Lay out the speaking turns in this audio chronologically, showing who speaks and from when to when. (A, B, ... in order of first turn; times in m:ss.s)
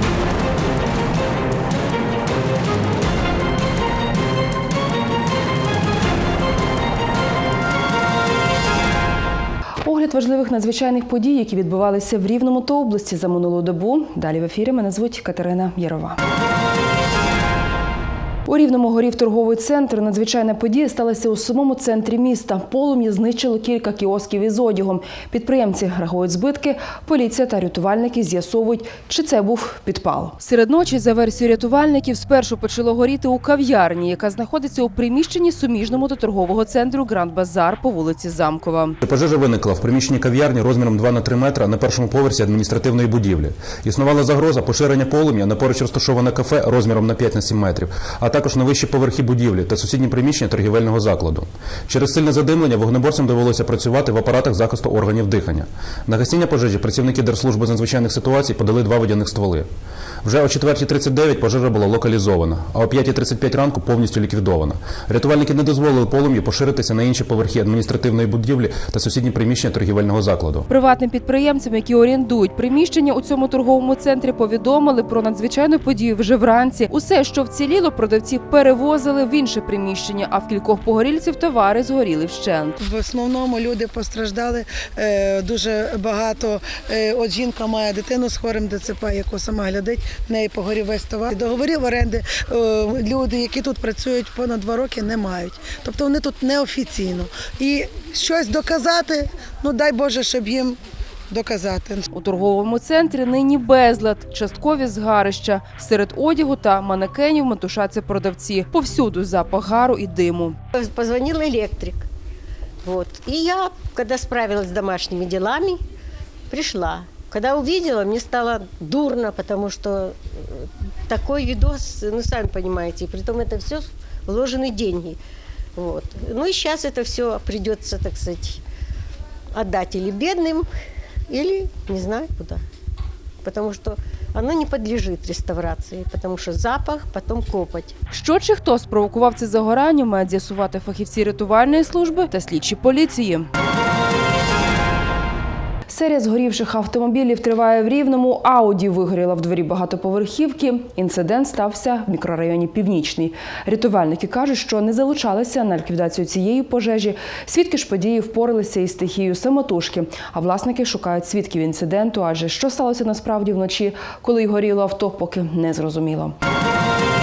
0:09.8-0:16.2 A
0:18.4-0:39.0 A
0:39.0-0:59.7 B
1:00.2-1:10.7 B
1:10.7-1:22.8 A
1:22.8-1:40.8 C
1:41.3-1:42.0 C
1:42.1-1:50.6 A
1:50.7-1:52.1 D
1:52.8-1:55.8 D
1:56.5-2:05.2 D
2:05.8-2:08.6 D
2:09.5-2:10.7 D
2:11.3-2:12.6 D
2:13.4-2:17.9 D
2:18.1-2:23.5 A
2:25.9-2:46.3 A